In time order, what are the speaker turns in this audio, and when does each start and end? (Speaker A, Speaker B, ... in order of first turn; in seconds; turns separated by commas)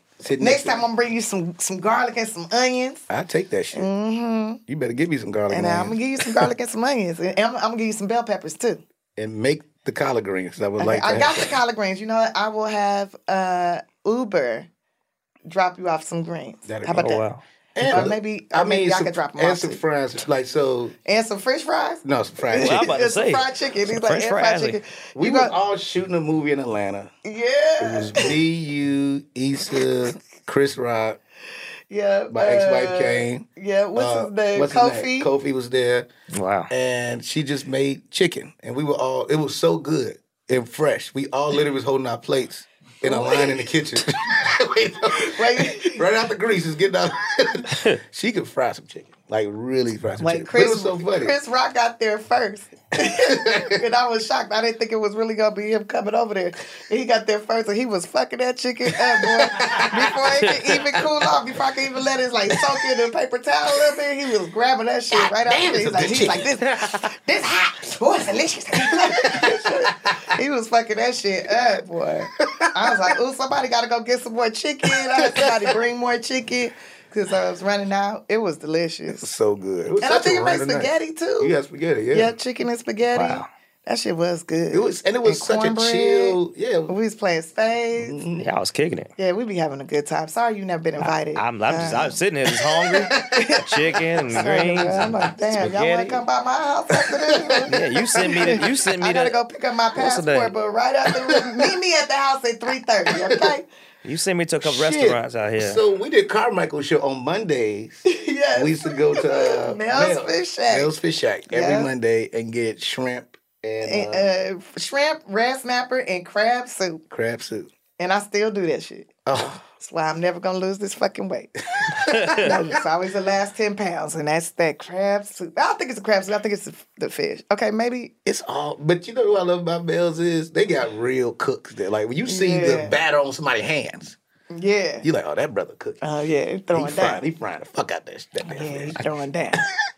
Speaker A: 0.2-0.8, Speaker B: 0.4-3.1, Speaker A: 3.1-3.9, Speaker B: 3.7-4.6, Speaker A: 4.7-6.0, Speaker B: 5.5-8.8, Speaker A: 9.2-11.5, Speaker B: 10.8-14.7, Speaker B: 15.5-17.2, Speaker A: 16.7-17.2, Speaker C: 17.0-18.1, Speaker A: 17.8-20.9, Speaker B: 17.9-19.8, Speaker B: 21.1-25.5, Speaker A: 22.0-22.9, Speaker C: 22.6-24.8, Speaker A: 25.2-27.1, Speaker B: 27.2-28.3, Speaker A: 27.8-31.2, Speaker B: 31.9-35.3, Speaker A: 32.3-36.1, Speaker C: 36.3-36.7, Speaker A: 36.7-51.3, Speaker B: 43.0-43.7, Speaker B: 45.1-46.0, Speaker B: 50.2-79.3, Speaker A: 53.0-53.8, Speaker A: 59.2-60.5, Speaker A: 65.1-66.6, Speaker A: 68.9-70.2, Speaker A: 72.4-73.0, Speaker A: 74.9-75.8, Speaker A: 79.2-82.3, Speaker B: 80.0-81.5, Speaker B: 82.1-86.4, Speaker C: 83.1-83.5, Speaker A: 84.7-86.9, Speaker B: 86.9-88.2, Speaker A: 88.0-88.5, Speaker C: 88.4-89.1, Speaker B: 89.2-92.2, Speaker C: 91.0-96.2, Speaker A: 92.7-93.6, Speaker B: 93.3-93.7, Speaker B: 94.3-103.7, Speaker A: 94.5-95.8, Speaker A: 97.0-98.6, Speaker C: 97.7-99.4, Speaker C: 100.0-100.5, Speaker A: 101.1-101.7, Speaker A: 103.1-103.5, Speaker C: 104.0-105.8, Speaker A: 104.6-108.0, Speaker B: 108.1-110.9, Speaker A: 108.5-114.3, Speaker B: 111.5-111.9, Speaker B: 113.8-117.0, Speaker A: 117.1-117.7, Speaker B: 118.0-119.1, Speaker A: 119.3-119.6, Speaker B: 119.7-121.5, Speaker A: 121.8-122.6, Speaker B: 122.1-128.1, Speaker A: 128.2-134.2, Speaker B: 132.3-133.0, Speaker B: 134.5-135.1, Speaker A: 135.0-136.0, Speaker B: 136.0-137.2, Speaker A: 136.7-139.0, Speaker B: 138.4-139.6